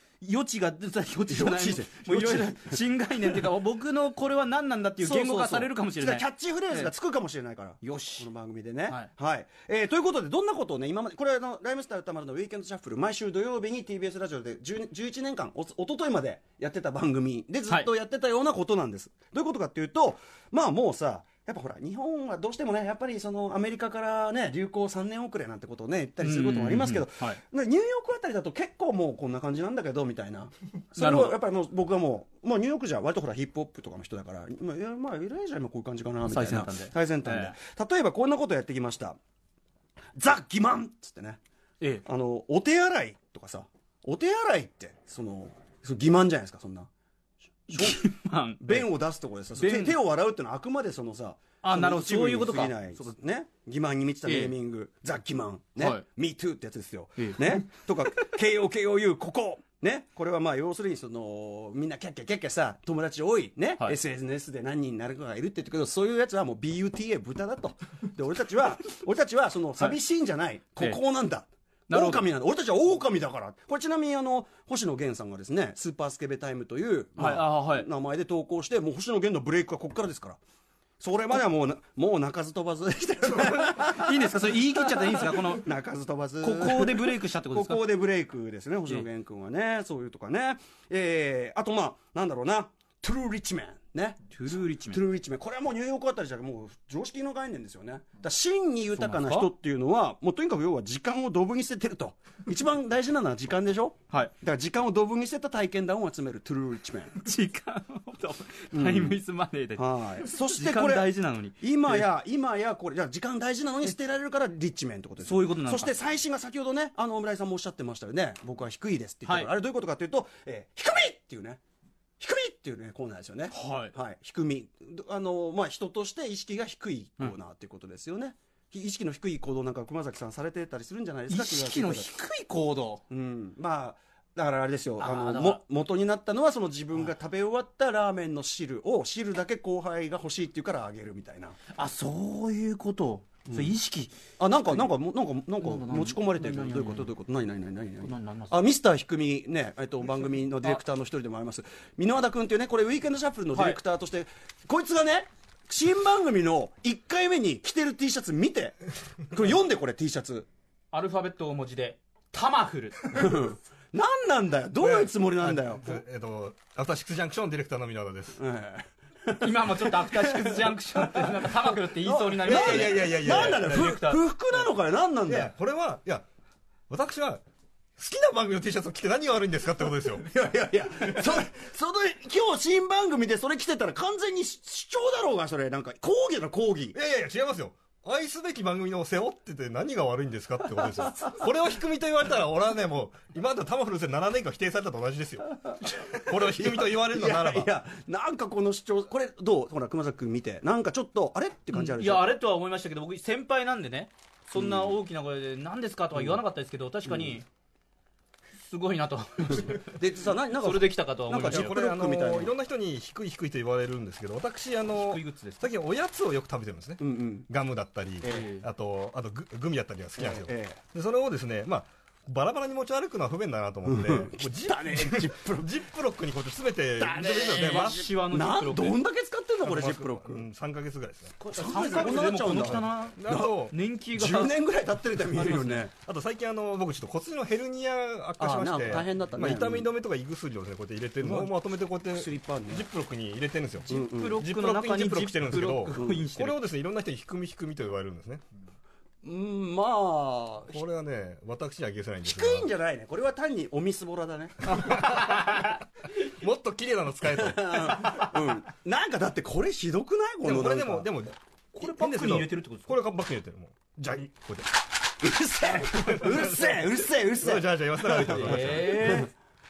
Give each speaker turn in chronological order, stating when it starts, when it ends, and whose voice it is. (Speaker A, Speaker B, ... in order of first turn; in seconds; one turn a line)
Speaker A: 0.2-6.9
Speaker B: 1.3-3.4
Speaker B: 5.0-39.2
Speaker A: 7.8-8.3
Speaker A: 26.2-27.4
Speaker A: 30.9-31.4
Speaker A: 36.2-37.5
Speaker B: 40.1-41.4
Speaker B: 42.0-46.9
Speaker B: 47.7-48.0
Speaker A: 47.7-48.9
Speaker B: 48.6-80.4
Speaker A: 49.5-50.0
Speaker A: 51.6-53.1
Speaker A: 54.2-54.5
Speaker A: 55.8-56.0
Speaker A: 57.2-58.4
Speaker A: 71.9-72.3
Speaker A: 77.2-77.9
Speaker B: 81.0-94.2
Speaker A: 83.4-85.7
Speaker A: 86.4-87.8
Speaker A: 94.3-95.0
Speaker B: 94.9-107.1
Speaker A: 98.9-99.5
Speaker A: 104.1-104.3
Speaker A: 107.1-112.1
Speaker B: 108.7-109.2
Speaker B: 109.8-121.6
Speaker A: 115.2-115.9
Speaker A: 119.2-119.5
Speaker B: 122.2-132.1
Speaker A: 123.5-124.0
Speaker A: 131.3-133.0
Speaker B: 133.1-141.6
Speaker A: 135.0-135.6
Speaker A: 141.7-144.8
Speaker B: 143.4-143.7
Speaker B: 144.4-160.5
Speaker A: 145.6-147.1
Speaker A: 148.0-148.6
Speaker A: 153.5-153.8
Speaker A: 160.9-163.2
Speaker B: 163.1-166.0
Speaker C: 164.8-168.4
Speaker B: 168.4-171.4
Speaker A: 169.4-174.6
Speaker B: 172.0-175.5
Speaker C: 172.4-173.8
Speaker C: 175.3-176.2
Speaker C: 176.9-177.4
Speaker C: 178.0-180.2
Speaker B: 180.2-187.0
Speaker C: 186.9-197.7
Speaker B: 190.8-191.4
Speaker B: 196.3-202.3
Speaker A: 201.7-207.4
Speaker B: 204.5-205.0
Speaker B: 206.1-206.4
Speaker B: 207.1-207.4
Speaker A: 208.6-211.8
Speaker B: 209.9-212.5
Speaker C: 211.4-228.1
Speaker A: 214.9-215.7
Speaker B: 217.0-217.5
Speaker B: 218.2-218.5
Speaker A: 218.3-218.7
Speaker B: 220.2-220.8
Speaker B: 223.8-225.8
Speaker B: 227.0-227.5
Speaker A: 227.1-229.0
Speaker B: 228.3-230.4
Speaker C: 229.6-233.7
Speaker A: 231.4-234.6
Speaker B: 231.4-232.8
Speaker B: 233.3-233.6
Speaker B: 234.2-235.9
Speaker A: 235.2-235.8
Speaker C: 236.0-248.4
Speaker B: 238.4-239.9
Speaker B: 241.2-241.5
Speaker B: 242.1-242.9
Speaker A: 243.9-246.6
Speaker B: 243.9-244.4
Speaker B: 245.9-246.3
Speaker B: 249.2-250.8
Speaker C: 250.7-252.7
Speaker B: 252.2-254.8
Speaker C: 254.6-258.2
Speaker A: 254.8-255.8
Speaker B: 257.3-261.1
Speaker C: 260.4-264.7
Speaker A: 261.7-262.9
Speaker B: 265.2-269.3
Speaker C: 265.7-269.2
Speaker A: 268.3-269.3